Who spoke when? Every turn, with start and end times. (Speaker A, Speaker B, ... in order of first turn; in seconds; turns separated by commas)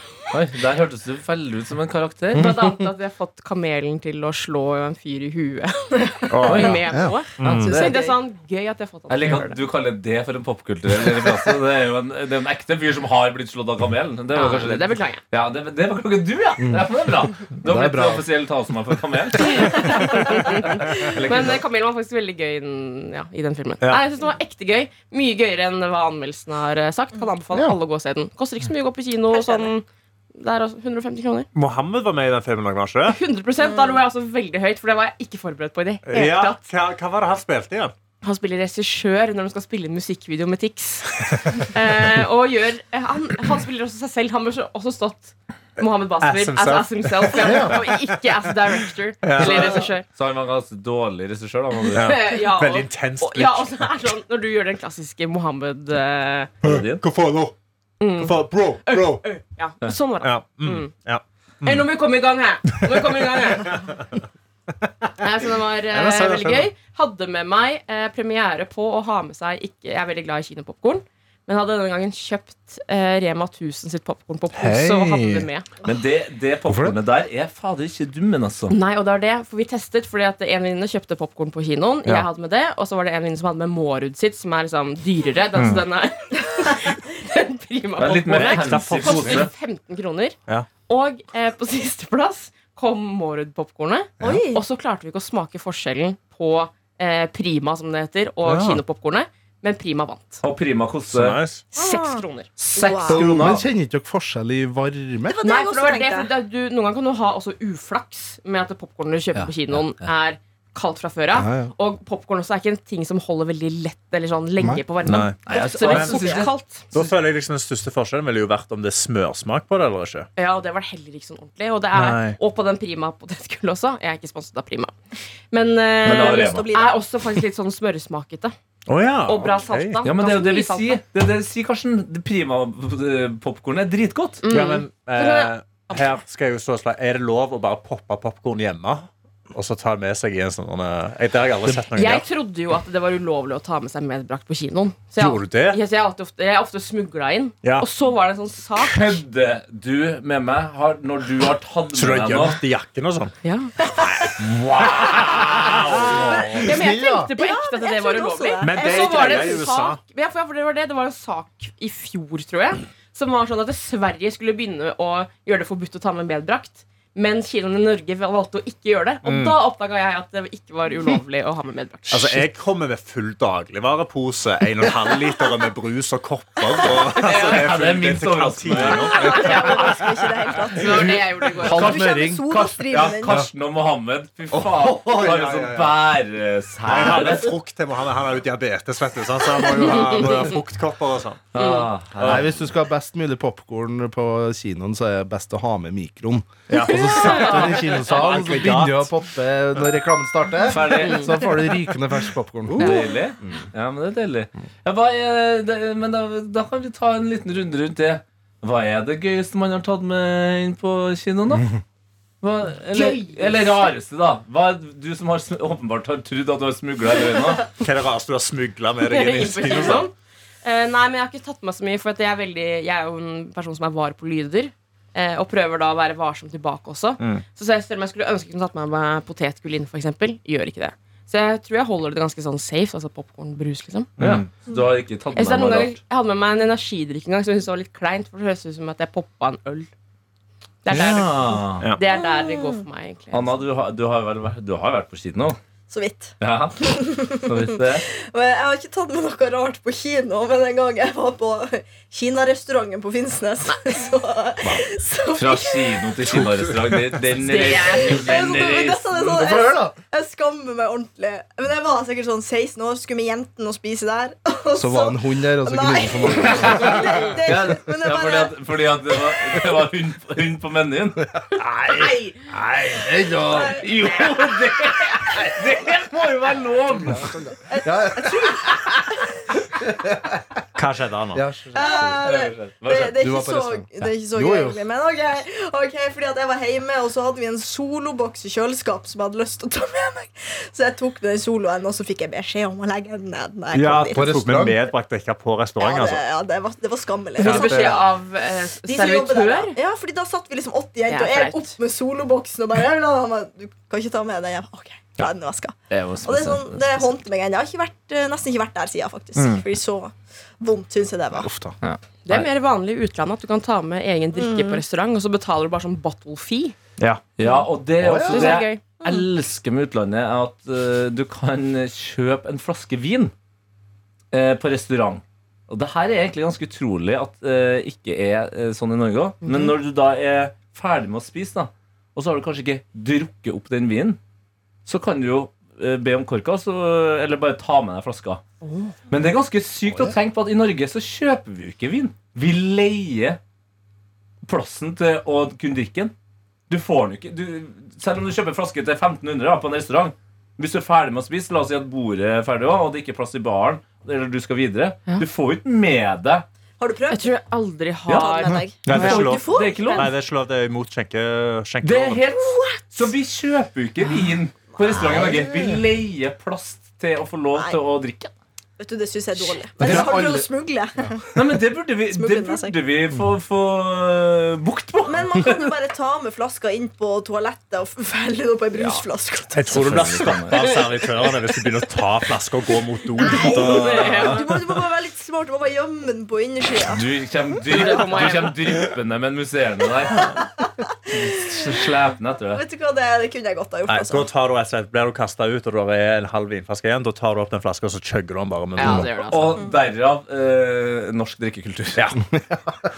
Speaker A: 0.3-2.6, Speaker B: 2.3-9.6, Speaker C: 6.3-6.8, Speaker A: 6.5-6.8, Speaker D: 6.9-7.2, Speaker C: 7.4-7.8, Speaker E: 7.5-8.2, Speaker A: 9.1-21.6, Speaker B: 14.3-15.2, Speaker D: 16.6-16.9, Speaker D: 17.6-18.2, Speaker B: 19.5-31.5, Speaker E: 29.3-29.7, Speaker C: 31.6-33.2, Speaker B: 33.0-36.6, Speaker E: 33.6-34.0, Speaker C: 36.1-37.9, Speaker B: 38.2-50.1, Speaker C: 46.2-48.2, Speaker D: 47.4-47.8, Speaker C: 49.2-49.8, Speaker A: 49.4-52.1, Speaker C: 51.9-54.0, Speaker B: 52.0-56.5, Speaker A: 56.6-57.0, Speaker C: 56.6-57.5, Speaker B: 58.0-60.9, Speaker C: 58.2-59.2, Speaker C: 60.2-61.9, Speaker B: 61.6-63.9, Speaker C: 62.8-64.0, Speaker B: 65.2-75.7, Speaker C: 65.9-66.7, Speaker C: 74.5-75.5, Speaker A: 75.8-78.8, Speaker B: 78.7-100.4, Speaker C: 85.6-85.8, Speaker A: 88.0-89.5, Speaker C: 88.3-89.5, Speaker E: 94.2-94.6, Speaker C: 98.4-98.8, Speaker A: 100.4-101.4, Speaker C: 101.1-101.7, Speaker B: 101.7-103.0, Speaker E: 101.8-103.4, Speaker A: 102.7-103.6, Speaker D: 103.1-105.4, Speaker E: 105.3-106.3, Speaker B: 105.4-116.9, Speaker A: 109.3-110.1, Speaker D: 111.3-111.7, Speaker C: 115.0-116.2, Speaker A: 115.5-116.5, Speaker E: 116.1-116.5, Speaker C: 116.9-120.3, Speaker B: 120.4-125.0, Speaker C: 121.9-122.4, Speaker B: 125.5-128.5, Speaker A: 126.0-126.7, Speaker E: 126.0-127.0, Speaker C: 128.9-130.0, Speaker B: 129.3-131.0, Speaker A: 130.0-134.4, Speaker B: 134.4-136.1, Speaker C: 134.5-142.3, Speaker B: 141.9-149.2, Speaker C: 145.2-145.8, Speaker A: 148.8-152.6, Speaker C: 151.9-153.3, Speaker B: 153.4-153.7, Speaker C: 154.2-156.6, Speaker A: 154.4-156.6, Speaker E: 156.1-159.7, Speaker B: 156.6-172.4, Speaker D: 156.7-157.3, Speaker C: 158.6-160.0, Speaker C: 169.2-169.6, Speaker C: 172.1-179.9, Speaker A: 177.2-179.6, Speaker B: 177.2-177.6, Speaker B: 179.0-180.0, Speaker E: 179.0-183.4, Speaker B: 180.7-182.0, Speaker D: 181.6-182.7, Speaker A: 181.7-187.5, Speaker C: 184.6-186.0, Speaker C: 186.9-191.5, Speaker A: 191.5-192.5, Speaker B: 191.6-191.8, Speaker C: 192.2-192.5, Speaker D: 192.2-202.9, Speaker C: 196.7-199.1, Speaker B: 197.2-197.6, Speaker A: 200.7-201.5, Speaker B: 201.0-201.3, Speaker C: 202.7-203.0, Speaker A: 202.8-211.8, Speaker B: 202.8-203.1, Speaker A: 212.4-217.7, Speaker B: 212.9-213.7, Speaker C: 217.7-220.1, Speaker B: 219.0-234.1, Speaker C: 234.2-234.5, Speaker A: 234.2-236.0, Speaker B: 235.3-239.9, Speaker B: 240.8-243.6, Speaker A: 240.9-241.9, Speaker E: 242.1-242.8, Speaker A: 243.3-245.6, Speaker E: 245.9-247.5, Speaker A: 246.4-248.1, Speaker E: 248.1-256.2, Speaker A: 255.3-259.1, Speaker B: 257.4-258.3, Speaker E: 257.5-268.6, Speaker D: 259.1-260.0, Speaker D: 264.8-267.1, Speaker A: 267.4-271.2, Speaker D: 271.2-271.4, Speaker B: 271.9-272.3, Speaker D: 272.9-273.9, Speaker A: 273.6-277.3, Speaker D: 277.1-278.8, Speaker E: 277.7-279.3, Speaker D: 279.7-280.6, Speaker C: 280.8-281.4, Speaker D: 281.3-282.2, Speaker E: 281.7-294.4, Speaker A: 281.8-283.1, Speaker D: 282.9-284.8, Speaker C: 293.7-296.2, Speaker D: 294.1-294.8, Speaker E: 295.8-298.1, Speaker B: 297.4-299.8, Speaker C: 297.4-297.9, Speaker E: 298.9-311.5, Speaker B: 301.1-301.7, Speaker A: 305.9-307.2, Speaker C: 309.4-309.6, Speaker D: 311.4-311.8, Speaker A: 311.8-312.5, Speaker B: 312.2-316.8, Speaker E: 314.4-314.8, Speaker C: 317.0-317.2, Speaker A: 317.4-323.3, Speaker D: 318.0-318.6, Speaker B: 318.3-318.8, Speaker A: 324.3-334.2, Speaker B: 329.4-329.8, Speaker A: 334.9-338.4, Speaker B: 338.6-338.9, Speaker A: 339.1-343.4, Speaker D: 339.9-340.2, Speaker A: 344.4-346.1, Speaker A: 346.7-356.5, Speaker E: 356.8-357.4, Speaker B: 357.1-359.4, Speaker E: 358.1-360.1, Speaker C: 358.8-362.2, Speaker A: 358.9-360.1, Speaker A: 361.8-368.3, Speaker E: 362.3-362.8, Speaker E: 364.7-365.5, Speaker E: 368.8-371.3, Speaker D: 369.8-370.5, Speaker A: 369.8-370.2, Speaker A: 371.4-375.7, Speaker E: 372.1-372.8, Speaker E: 375.1-380.7, Speaker C: 379.5-384.6, Speaker A: 379.7-380.6, Speaker E: 383.2-387.1, Speaker B: 383.2-384.4, Speaker A: 383.9-384.4, Speaker A: 386.9-390.4, Speaker B: 387.7-388.6, Speaker E: 387.7-388.5, Speaker E: 390.1-390.7, Speaker A: 391.1-392.6, Speaker E: 392.6-394.3, Speaker C: 393.9-399.1, Speaker B: 398.8-399.6, Speaker A: 398.9-402.1, Speaker D: 402.3-402.8